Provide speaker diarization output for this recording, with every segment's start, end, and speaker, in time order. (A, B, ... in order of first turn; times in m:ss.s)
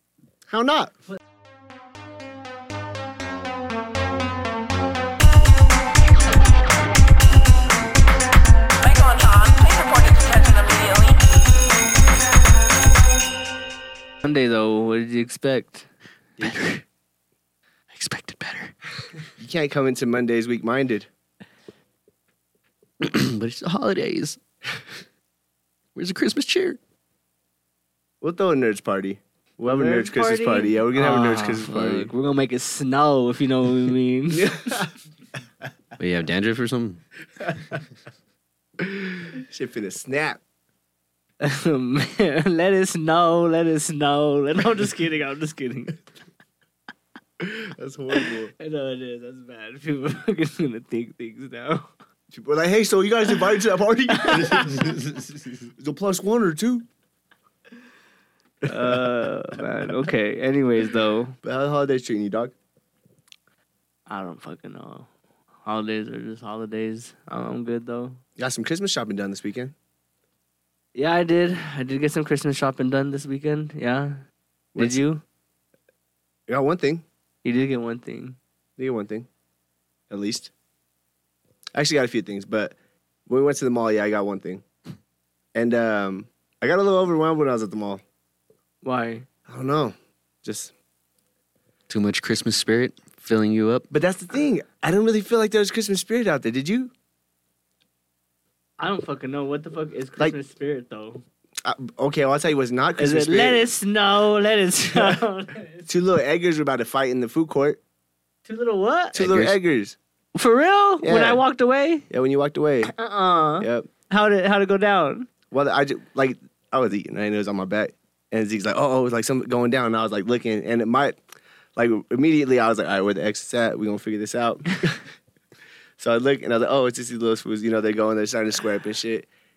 0:00.5-0:00.9 A
0:09.0-0:11.1 B
0:14.2-0:15.9 C
0:16.4-0:16.8 D
0:17.9-0:18.7 D
0:19.4-0:21.1 A
0:23.0-0:24.4 D
0:26.0-0:26.8 D
0:28.2-0:32.1 A
0:29.7-0:34.7 C
0:34.4-0:34.9 A
0:36.0-0:37.0 D
0:38.8-0:40.4 A
0:41.4-0:46.0 C
0:47.4-0:48.5 A
0:48.2-0:51.9 C
0:52.3-0:56.9 A
0:54.2-0:54.9 C
0:58.6-0:59.3 A
0:58.6-1:01.4 C
1:01.4-1:02.5 A
1:04.1-1:05.1 C
1:05.6-1:08.2 C
1:08.4-1:09.7 A
1:11.0-1:14.2 C
1:14.8-1:15.2 C
1:16.5-1:17.0 A
1:17.4-1:18.4 C
1:18.8-1:19.3 A
1:20.1-1:20.5 A
1:21.7-1:22.8 A
1:23.3-1:24.6 A
1:25.5-1:28.0 A
1:28.8-1:29.3 C
1:29.5-1:30.7 A
1:31.9-1:33.9 D
1:33.9-1:36.9 A
1:38.8-1:41.2 C
1:41.6-1:43.6 A
1:43.0-1:45.9 C
1:45.9-1:47.8 A
1:48.4-1:49.2 C
1:49.1-1:50.0 A
1:49.2-1:49.6 D
1:50.4-1:52.1 C
1:51.0-1:51.4 A
1:52.1-1:52.9 A
1:52.8-1:55.3 C
1:53.6-1:53.9 A
1:55.5-2:01.2 A
2:01.8-2:05.0 A
2:06.0-2:09.3 A